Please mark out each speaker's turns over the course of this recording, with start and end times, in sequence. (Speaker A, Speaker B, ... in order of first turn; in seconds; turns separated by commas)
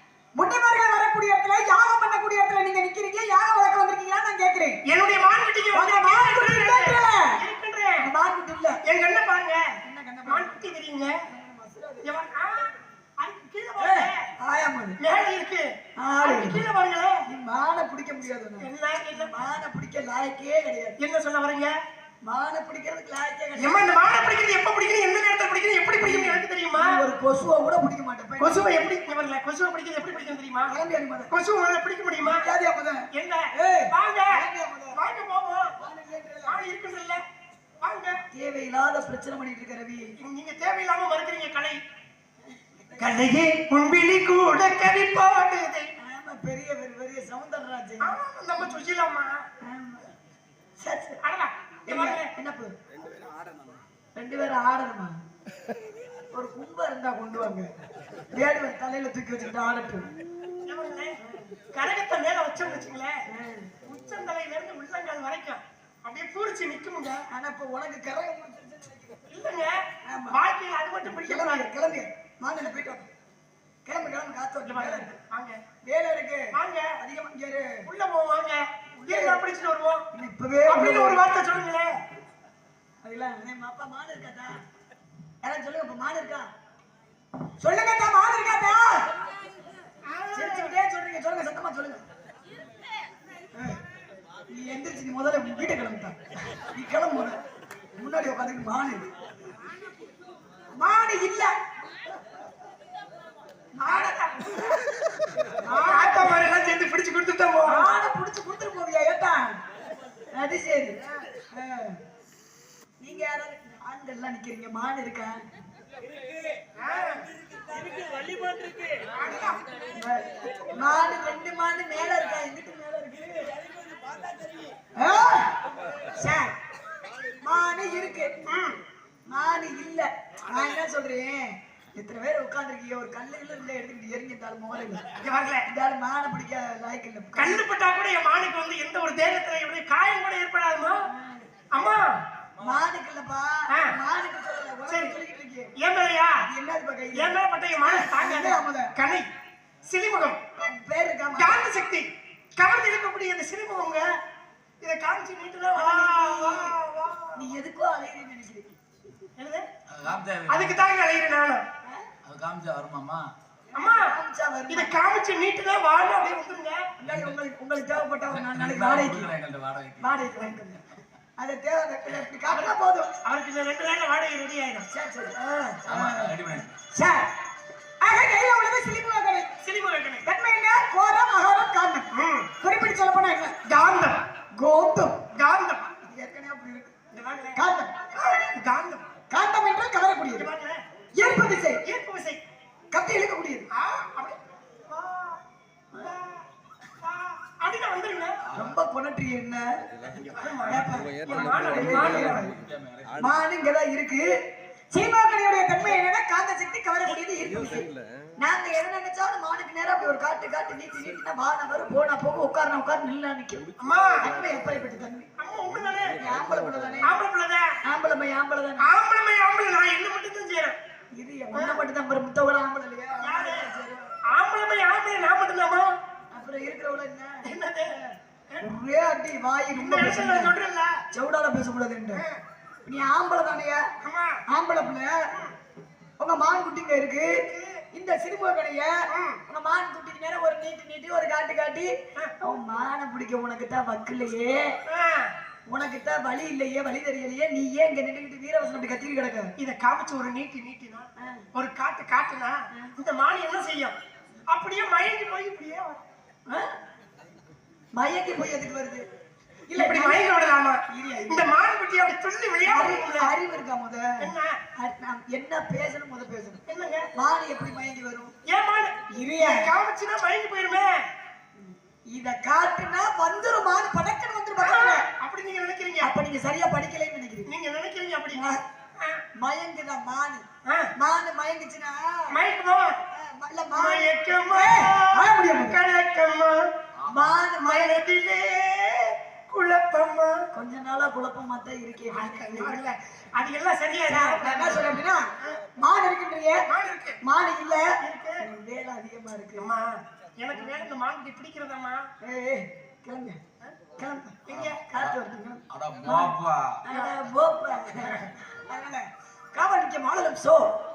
Speaker A: 0.4-4.8, Speaker B: 4.9-8.1, Speaker A: 5.7-7.4, Speaker A: 8.0-8.8, Speaker B: 8.9-9.7, Speaker A: 9.8-10.6, Speaker B: 10.3-11.2, Speaker A: 11.3-12.1, Speaker B: 12.0-14.3, Speaker A: 13.8-15.0, Speaker B: 15.0-17.2, Speaker A: 16.0-16.6, Speaker A: 17.3-21.0, Speaker B: 18.6-19.3, Speaker B: 21.0-21.8, Speaker A: 22.2-24.0, Speaker B: 23.6-27.0, Speaker A: 26.0-28.7, Speaker B: 28.4-30.7, Speaker A: 30.7-31.3, Speaker B: 31.3-32.5, Speaker A: 32.2-35.0, Speaker B: 33.1-35.7, Speaker A: 35.8-36.6, Speaker B: 36.5-37.2, Speaker B: 37.8-38.2, Speaker A: 38.3-40.1, Speaker B: 40.2-41.8, Speaker A: 42.6-43.2, Speaker B: 43.0-45.9, Speaker A: 46.0-48.7, Speaker B: 48.0-49.5, Speaker A: 49.6-50.1, Speaker A: 50.8-51.2, Speaker B: 51.2-52.3, Speaker A: 51.9-52.7, Speaker A: 54.2-55.2, Speaker A: 56.3-57.7, Speaker A: 58.3-60.1, Speaker B: 60.6-61.2, Speaker A: 61.2-61.5, Speaker B: 61.7-63.2, Speaker A: 63.3-63.7, Speaker B: 63.8-67.2, Speaker A: 67.3-69.2, Speaker B: 69.3-71.7, Speaker A: 70.0-70.4, Speaker A: 71.1-73.1, Speaker A: 73.9-75.1, Speaker B: 74.7-75.6, Speaker A: 75.8-77.9, Speaker B: 76.5-77.0, Speaker B: 77.9-80.0, Speaker A: 79.0-79.4, Speaker A: 80.1-81.2, Speaker B: 80.7-82.0, Speaker A: 83.0-84.6, Speaker A: 85.4-86.5, Speaker A: 87.6-89.1, Speaker B: 90.1-90.8, Speaker A: 90.3-92.0, Speaker A: 94.5-96.2, Speaker A: 96.7-97.4, Speaker A: 98.0-99.1, Speaker A: 100.8-101.5, Speaker A: 103.8-104.2, Speaker B: 103.8-104.5, Speaker A: 105.6-106.4, Speaker B: 105.8-107.9, Speaker A: 107.7-109.6, Speaker A: 110.3-111.0, Speaker A: 111.5-112.0, Speaker A: 113.0-115.4, Speaker B: 116.8-117.3, Speaker B: 119.0-119.6, Speaker A: 120.0-123.5, Speaker A: 125.0-125.6, Speaker A: 126.2-126.5, Speaker A: 127.4-128.3, Speaker B: 128.5-128.8, Speaker A: 129.3-135.1, Speaker B: 135.2-135.7, Speaker A: 135.7-137.6, Speaker B: 137.4-141.1, Speaker A: 141.1-141.5, Speaker B: 141.7-142.2, Speaker A: 142.6-145.7, Speaker B: 143.7-144.0, Speaker B: 144.9-145.2, Speaker B: 145.8-146.4, Speaker A: 146.4-148.9, Speaker B: 147.2-149.3, Speaker B: 149.8-150.4, Speaker A: 150.6-151.7, Speaker B: 151.4-154.2, Speaker B: 154.8-157.3, Speaker A: 155.8-156.8, Speaker A: 157.3-158.7, Speaker B: 159.4-159.7, Speaker C: 159.9-160.8, Speaker B: 160.5-161.6, Speaker C: 162.2-163.3, Speaker A: 163.7-164.9, Speaker B: 163.8-164.1, Speaker B: 164.7-166.9, Speaker A: 167.0-169.3, Speaker C: 167.1-167.4, Speaker C: 168.3-170.1, Speaker A: 170.0-173.1, Speaker B: 173.2-174.9, Speaker A: 174.9-177.3, Speaker B: 175.4-175.7, Speaker C: 175.9-176.8, Speaker A: 178.0-179.5, Speaker B: 179.6-180.2, Speaker A: 180.2-183.6, Speaker B: 182.1-182.5, Speaker B: 183.7-184.2, Speaker A: 184.6-185.2, Speaker B: 185.3-185.8, Speaker A: 186.0-186.9, Speaker B: 187.1-187.6, Speaker A: 187.5-187.9, Speaker B: 188.1-189.1, Speaker A: 189.3-190.5, Speaker B: 190.4-192.4, Speaker A: 191.2-191.8, Speaker A: 192.9-193.7, Speaker B: 193.7-195.4, Speaker B: 196.0-196.4, Speaker B: 197.0-198.4, Speaker A: 198.6-199.8, Speaker B: 200.3-202.5, Speaker A: 200.7-202.6, Speaker C: 201.3-203.4, Speaker A: 203.2-204.3, Speaker A: 204.9-207.9, Speaker A: 208.4-213.7, Speaker B: 213.8-214.2, Speaker A: 214.2-215.3, Speaker B: 215.4-216.2, Speaker A: 216.2-217.2, Speaker B: 217.0-217.7, Speaker A: 217.8-218.9, Speaker B: 218.8-220.8, Speaker A: 221.2-224.1, Speaker B: 221.6-221.8, Speaker B: 223.2-223.7, Speaker B: 224.3-225.9, Speaker A: 226.3-230.5, Speaker B: 227.5-227.9, Speaker B: 229.8-231.0, Speaker A: 231.1-232.2, Speaker A: 232.9-233.9, Speaker B: 234.0-234.4, Speaker A: 234.5-235.3, Speaker A: 236.2-244.8, Speaker B: 237.5-237.8, Speaker B: 239.1-239.4, Speaker B: 244.9-245.3, Speaker A: 245.7-249.5, Speaker B: 249.6-253.9, Speaker B: 254.5-256.0, Speaker A: 256.5-256.8, Speaker A: 257.9-259.1, Speaker A: 259.7-260.3, Speaker B: 259.7-263.3, Speaker A: 260.9-261.5, Speaker A: 262.7-268.3, Speaker B: 264.2-264.6, Speaker B: 266.7-267.1, Speaker B: 268.5-271.1, Speaker A: 269.1-269.7, Speaker A: 272.1-275.1, Speaker B: 274.6-276.1, Speaker A: 276.0-277.5, Speaker B: 277.5-278.4, Speaker A: 278.3-278.6, Speaker B: 279.0-279.2, Speaker A: 279.4-280.4, Speaker B: 280.7-280.9, Speaker A: 281.0-282.4, Speaker B: 282.3-283.0, Speaker A: 283.1-285.8, Speaker B: 283.7-286.7, Speaker C: 287.0-287.3, Speaker A: 287.1-288.0, Speaker B: 287.6-290.4, Speaker A: 290.5-292.8, Speaker B: 292.1-295.6, Speaker A: 294.1-296.6, Speaker B: 296.7-297.2, Speaker A: 297.2-299.7, Speaker B: 298.0-298.4, Speaker B: 299.6-302.1, Speaker A: 302.2-303.4, Speaker A: 304.0-310.7, Speaker B: 304.5-304.8, Speaker C: 304.5-305.2, Speaker C: 305.7-306.8